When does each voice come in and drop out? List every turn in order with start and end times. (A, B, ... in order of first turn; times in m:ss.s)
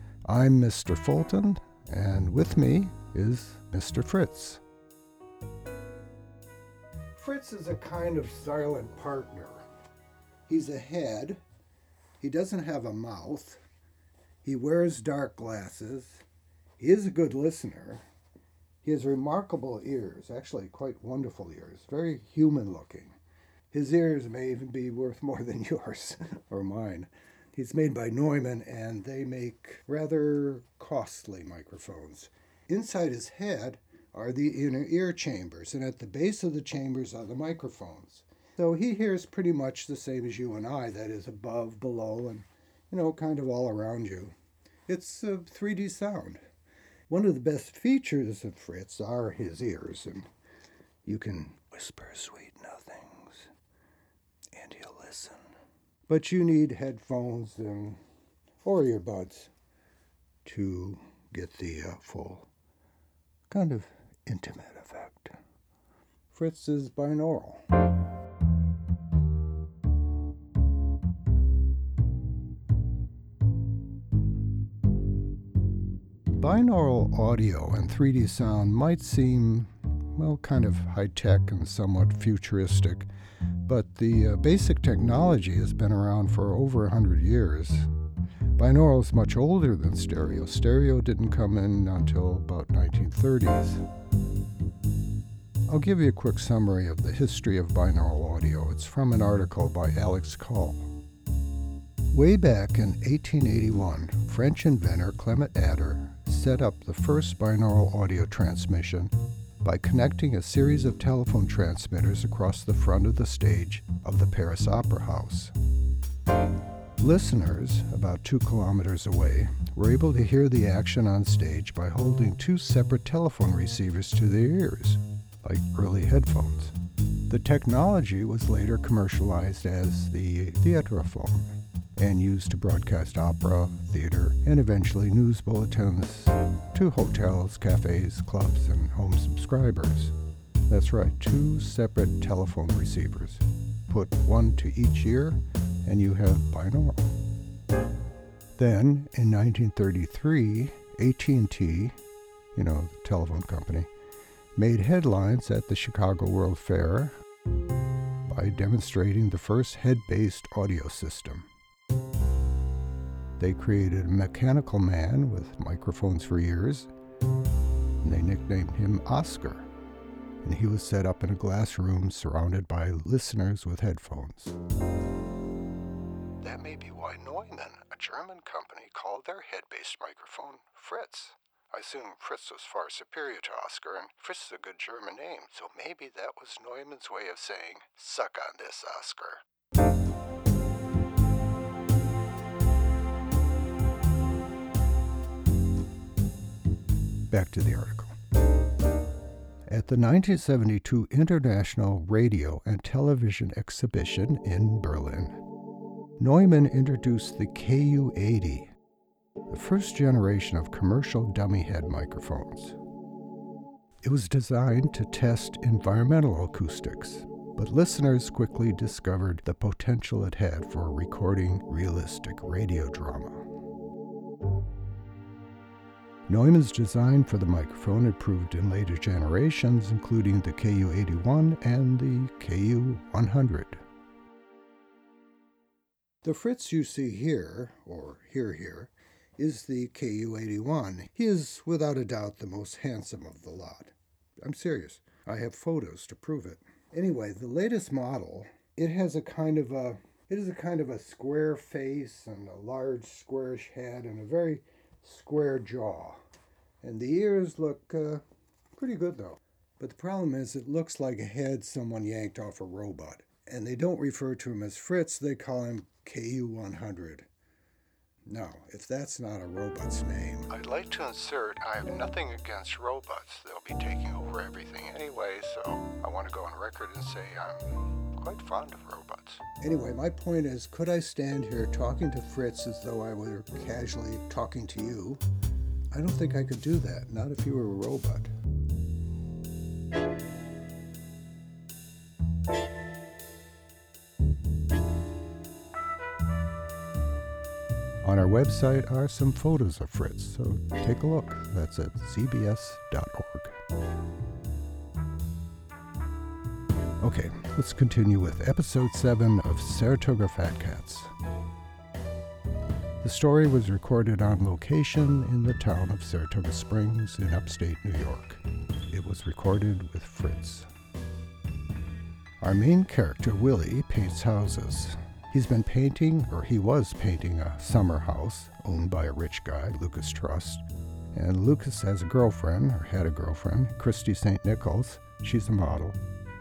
0:00.3-0:04.6 A
0:07.2-0:09.7 A
0:10.5-0:11.4 A
0:12.2-0:13.6 A
0:14.4-0:16.2 A
0:16.8-0:18.0 A
0:18.8-0:23.2 A
0:23.7-0:44.3 A
0:44.9-0:46.4 A
0:47.1-0:50.3 A
0:51.0-0:53.5 A
0:54.5-0:55.5 A
0:56.1-0:58.0 A
0:58.6-0:59.5 A
1:00.4-1:02.5 A
1:03.5-1:05.4 A
1:06.3-1:07.6 A
1:16.4-1:23.1 A
1:23.6-1:27.9 A
1:28.6-1:33.8 A
1:35.7-1:40.9 A
1:42.1-1:55.5 A
1:57.0-2:06.8 A
2:07.3-2:20.1 A
2:20.7-2:27.1 A
2:28.6-2:32.0 A
2:32.6-2:33.9 A
2:34.6-2:37.2 A
2:38.3-2:41.5 A
2:43.4-2:46.9 A
2:48.0-2:49.7 A
2:50.4-2:54.6 A
2:56.4-3:09.4 A
3:17.3-3:18.2 A
3:19.7-3:25.4 A
3:26.2-3:28.7 A
3:29.5-3:32.8 A
3:34.0-3:43.5 A
3:46.3-3:53.8 A
3:56.2-4:16.2 A
4:16.8-4:27.3 A
4:28.3-4:45.2 A
4:45.9-4:48.3 A
4:58.0-5:03.6 A
5:07.0-5:11.1 A
5:13.0-5:20.7 A
5:22.4-5:36.0 A